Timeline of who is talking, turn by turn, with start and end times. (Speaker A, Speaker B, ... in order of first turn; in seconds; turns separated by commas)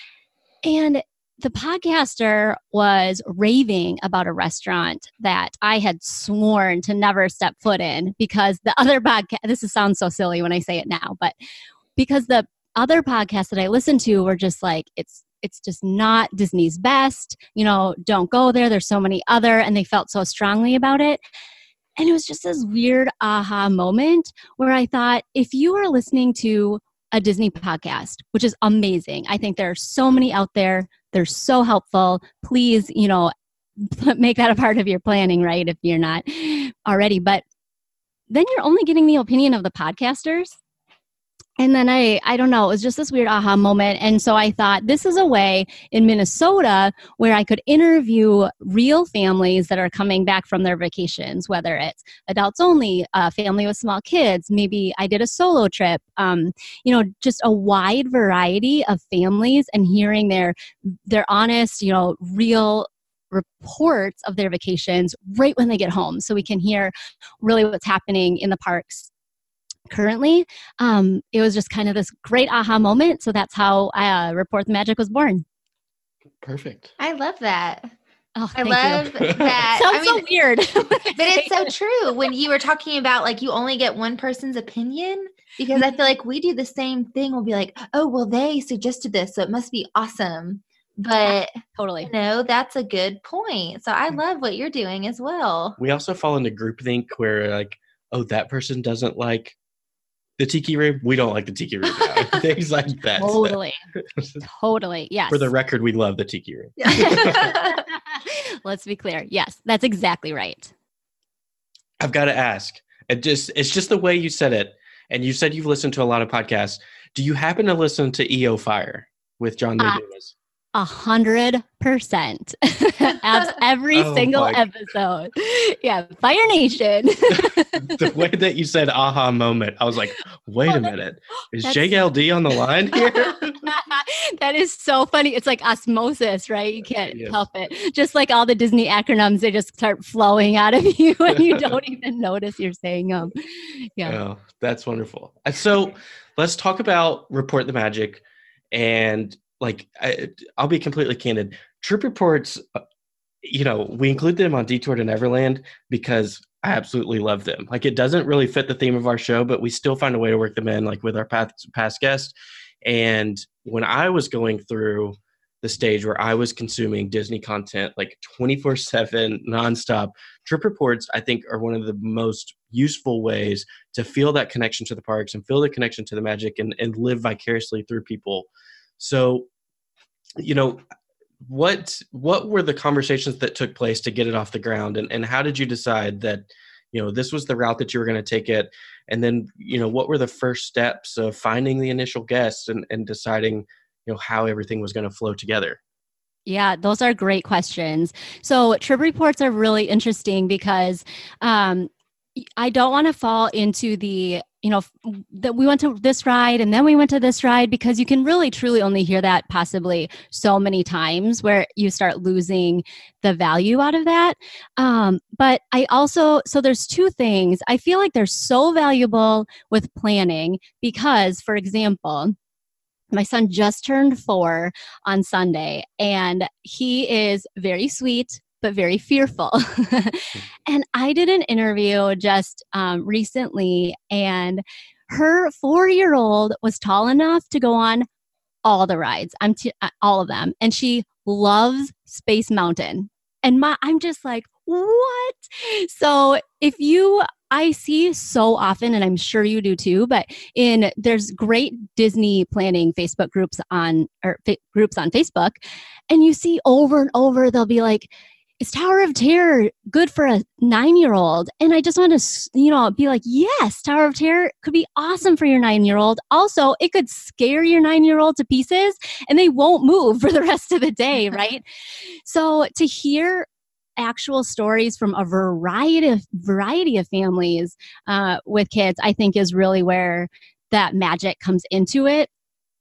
Speaker A: 0.6-11.3, Speaker A: 12.0-21.2, Speaker A: 22.0-37.4, Speaker A: 38.3-40.6, Speaker A: 41.6-69.1, Speaker A: 69.9-75.5, Speaker B: 76.4-76.9, Speaker C: 77.0-77.9, Speaker A: 78.4-81.7, Speaker C: 78.6-80.3, Speaker B: 79.2-79.7, Speaker C: 81.2-95.8, Speaker A: 91.3-92.1, Speaker B: 95.8-99.6, Speaker B: 100.4-103.6, Speaker A: 103.2-103.8, Speaker A: 104.4-105.5, Speaker B: 105.3-107.5, Speaker C: 106.8-107.8, Speaker A: 106.9-110.7, Speaker B: 112.0-120.3, Speaker A: 120.8-128.0, Speaker B: 123.9-124.7, Speaker B: 127.8-133.7, Speaker A: 131.6-132.1, Speaker A: 133.6-144.2, Speaker B: 137.1-137.4, Speaker B: 141.3-141.8, Speaker B: 144.0-152.8, Speaker B: 153.4-178.5, Speaker B: 179.0-179.5, Speaker B: 180.4-180.8, Speaker B: 181.4-195.8, Speaker A: 196.5-222.4, Speaker A: 223.1-238.1, Speaker A: 238.7-255.6, Speaker A: 256.1-273.5, Speaker A: 274.0-282.3